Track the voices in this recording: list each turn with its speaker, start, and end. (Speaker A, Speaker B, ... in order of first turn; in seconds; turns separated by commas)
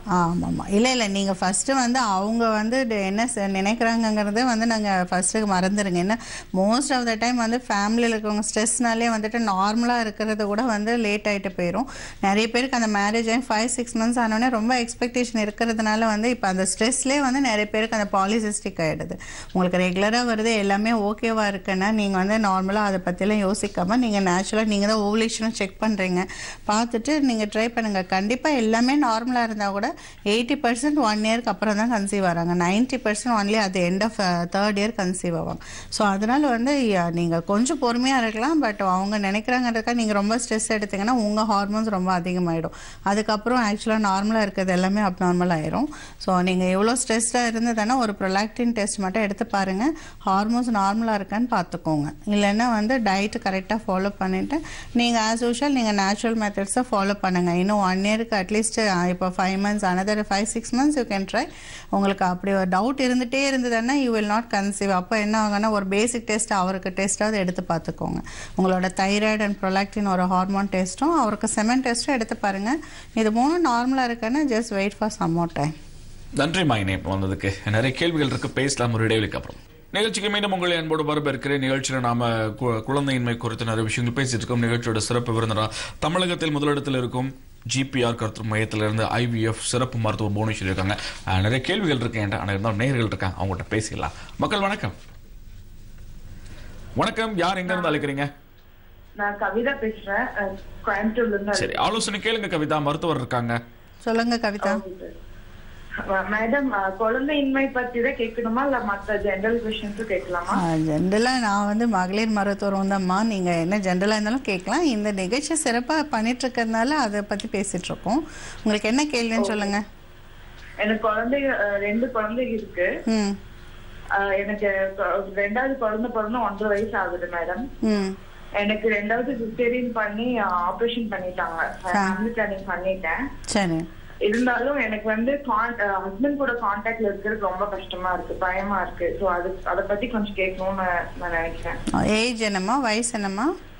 Speaker A: 0.1-75.7, Speaker B: 76.4-94.9, Speaker B: 97.0-98.3, Speaker C: 97.7-98.0, Speaker C: 99.2-102.0, Speaker B: 101.5-103.6, Speaker A: 104.0-104.8, Speaker C: 106.1-110.5, Speaker A: 110.6-119.8, Speaker C: 120.8-122.9, Speaker A: 123.1-123.4, Speaker C: 124.2-127.6, Speaker A: 127.8-128.2, Speaker C: 128.6-133.2, Speaker A: 131.9-132.2, Speaker A: 133.5-133.8, Speaker C: 134.2-141.8, Speaker A: 142.0-143.5